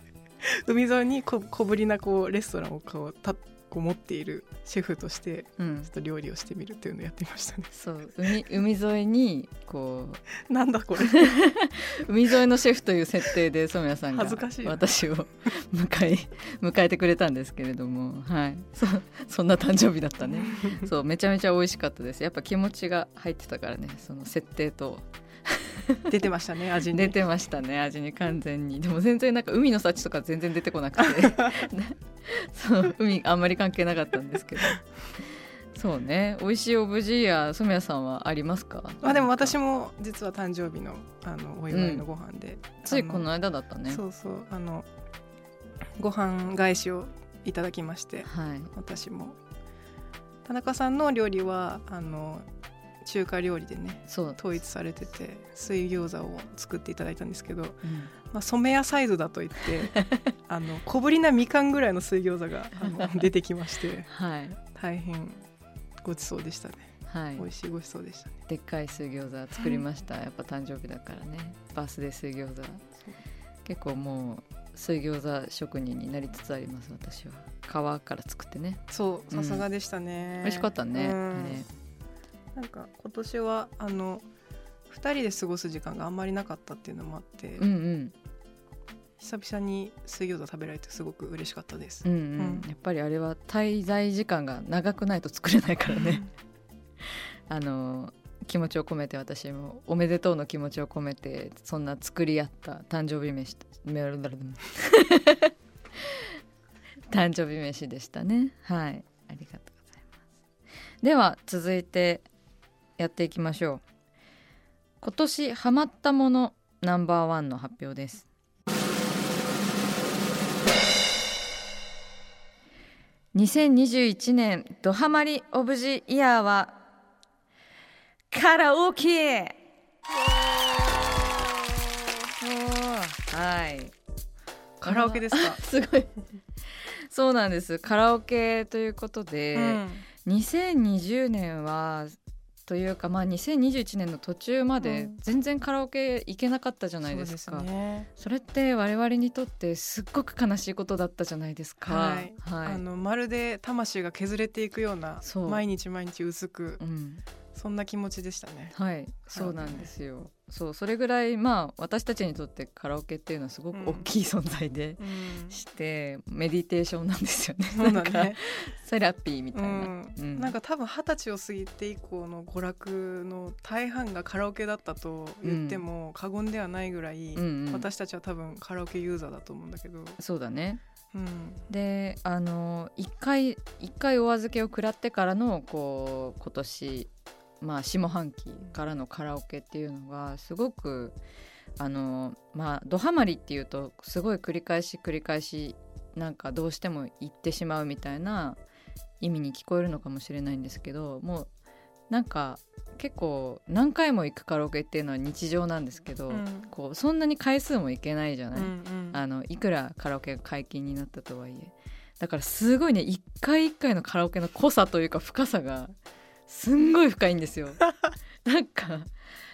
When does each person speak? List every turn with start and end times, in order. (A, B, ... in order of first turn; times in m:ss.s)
0:00.4-0:07.7 A
0:05.6-0:05.9 B
0:07.7-0:10.2 B
0:10.5-0:11.3 A
0:11.0-0:26.1 B
0:14.1-0:14.9 A
0:20.3-0:20.8 A
0:26.1-0:27.2 A
0:26.9-0:34.8 B
0:35.7-0:39.6 B
0:39.0-0:43.3 A
0:41.7-0:42.0 B
0:42.8-0:44.0 B
0:43.9-0:44.9 A
0:46.0-0:49.4 A
0:48.3-0:48.7 B
0:50.4-0:52.4 A
0:53.0-1:04.1 A
0:54.1-0:54.6 B
0:57.8-0:58.1 B
1:02.8-1:03.3 B
1:04.0-1:04.6 B
1:04.7-1:05.4 A
1:06.0-1:08.4 A
1:07.0-1:07.5 B
1:08.5-1:12.8 B
1:13.6-1:19.6 B
1:18.9-1:21.6 A
1:20.4-1:21.7 B
1:22.6-1:24.2 A
1:24.9-1:27.6 A
1:27.6-1:28.1 B
1:29.2-1:32.6 A
1:32.0-1:36.2 B
1:37.5-1:46.2 B
1:47.1-1:50.0 B
1:51.0-1:52.2 B
1:53.0-1:53.8 B
1:55.0-1:58.3 B
2:03.3-2:06.8 B
2:08.3-2:09.6 B
2:10.2-2:11.7 B
2:12.4-2:13.9 B
2:14.8-2:15.6 A
2:14.8-2:16.1 B
2:16.8-2:32.8 B
2:19.5-2:20.0 A
2:24.8-2:25.2 A
2:27.0-2:28.1 A
2:31.8-2:36.8 A
2:35.2-2:35.6 B
2:36.8-2:37.2 B
2:37.5-2:38.7 A
2:38.7-2:50.5 B
2:39.3-2:39.9 A
2:43.7-2:44.1 A
2:45.0-2:45.6 A
2:47.7-2:48.4 A
2:49.5-3:00.2 A
2:55.4-2:55.8 B
2:57.3-2:57.9 B
3:00.2-3:00.8 B
3:01.1-3:01.6 A
3:01.7-3:11.2 B
3:11.8-3:18.6 B
3:19.2-3:21.5 B
3:22.1-3:35.9 B
3:26.3-3:26.7 A
3:28.5-3:29.2 A
3:36.5-3:37.9 B
3:38.4-3:39.1 B